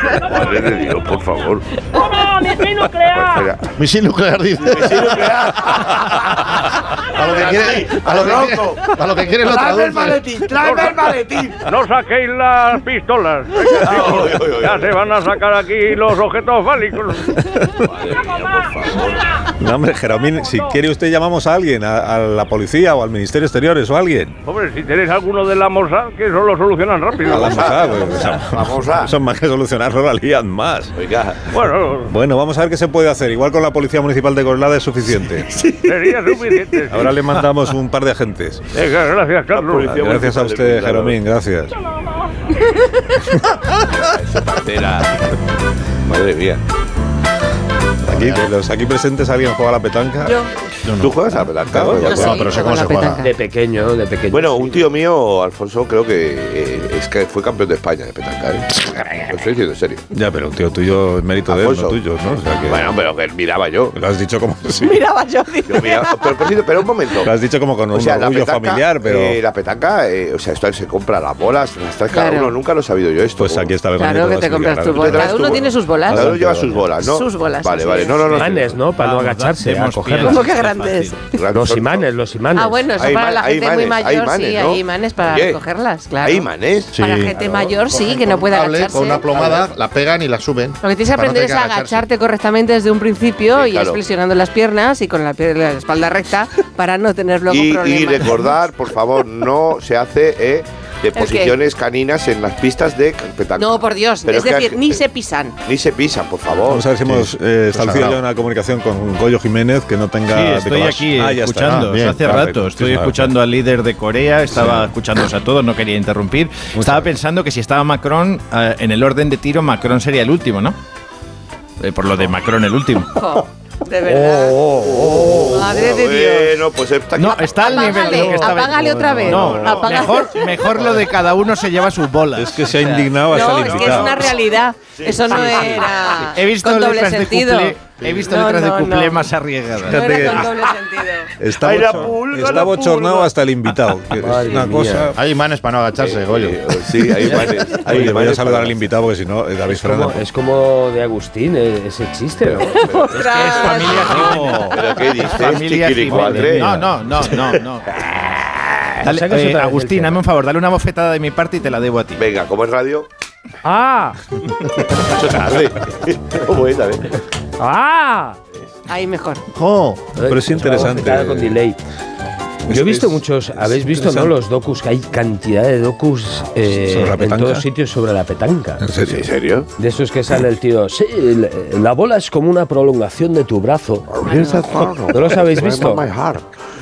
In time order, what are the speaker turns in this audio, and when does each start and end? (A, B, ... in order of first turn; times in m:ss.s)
0:00.1-0:01.6 A
0:01.9-0:03.5 B
0:03.0-0:03.8 A
0:03.8-0:10.4 C
0:04.6-0:11.6 A
0:10.6-0:17.4 B
0:13.6-0:15.0 A
0:17.3-0:17.8 D
0:17.8-0:19.3 A
0:19.6-0:24.4 D
0:24.4-0:28.0 B
0:27.2-0:29.1 A
0:27.3-0:30.9 D
0:31.0-0:31.5 A
0:31.5-0:32.1 B
0:32.1-0:35.5 D
0:35.6-0:36.2 A
0:35.8-0:37.2 B
0:36.9-0:38.6 D
0:38.7-0:40.0 B
0:39.5-0:41.2 A
0:39.9-0:41.7 D
0:43.8-0:45.3 A
0:46.0-0:46.6 A
0:48.0-0:50.4 D
0:48.1-0:48.5 C
0:50.8-0:53.2 C
0:51.0-0:52.6 A
0:51.7-0:52.5 D
0:52.1-0:53.3 E
0:53.2-0:54.9 F
0:54.3-1:00.0 A
1:00.1-1:02.9 D
1:01.5-1:04.0 A
1:03.9-1:05.0 D
1:04.8-1:06.3 E
1:05.7-1:07.3 A
1:07.2-1:09.4 D
1:07.9-1:13.7 A
1:12.1-1:12.5 E
1:13.4-1:16.9 D
1:14.0-1:16.3 E
1:14.9-1:18.8 A
1:17.0-1:18.4 E
1:18.3-1:20.4 F
1:18.8-1:21.2 G
1:20.2-1:21.2 E
1:21.3-1:22.1 A
1:21.5-1:22.8 F
1:22.5-1:29.6 E
1:23.0-1:25.6 A
1:26.2-1:26.9 A
1:26.9-1:32.0 C
1:27.3-1:27.8 F
1:30.8-1:38.5 E
1:33.5-1:34.0 A
1:37.5-1:45.0 A
1:41.2-1:41.6 E
1:43.6-1:45.5 E
1:45.6-1:46.9 A
1:46.7-1:53.4 D
1:47.0-1:48.2 C
1:50.3-2:00.8 G
1:51.6-1:52.5 C
1:54.5-1:54.9 D
1:56.8-1:57.1 D
2:01.8-2:03.1 G
2:03.1-2:04.8 E
2:04.0-2:05.6 F
2:04.8-2:08.2 A
2:05.5-2:06.6 E
2:07.2-2:13.0 G
2:07.4-2:10.6 E
2:08.1-2:09.8 F
2:12.4-2:14.3 D
2:13.2-2:21.3 E
2:15.0-2:16.2 A
2:16.2-2:20.4 G
2:18.0-2:18.3 C
2:19.8-2:20.5 D
2:21.4-2:25.2 D
2:21.6-2:23.9 A
2:24.2-2:25.1 F
2:25.2-2:26.6 C
2:26.0-2:28.9 A
2:27.3-2:30.2 D
2:29.7-2:32.8 F
2:32.4-2:37.4 A
2:32.8-2:34.8 E
2:33.2-2:37.9 G
2:36.1-2:36.5 F
2:38.0-2:38.6 A
2:39.0-2:42.2 G
2:39.0-2:40.2 F
2:42.2-2:43.1 A
2:43.6-2:44.2 F
2:44.9-2:47.2 A
2:47.6-2:48.4 F
2:48.9-2:49.4 E
2:49.5-2:50.1 C
2:50.2-2:51.8 F
2:50.2-2:51.6 D
2:52.7-2:54.4 D
2:52.7-2:58.8 F
2:56.8-2:57.6 D
2:58.8-2:59.3 D
2:59.0-2:59.7 A
2:59.8-3:04.2 F
3:04.1-3:06.5 A
3:04.2-3:04.6 E
3:05.1-3:06.0 F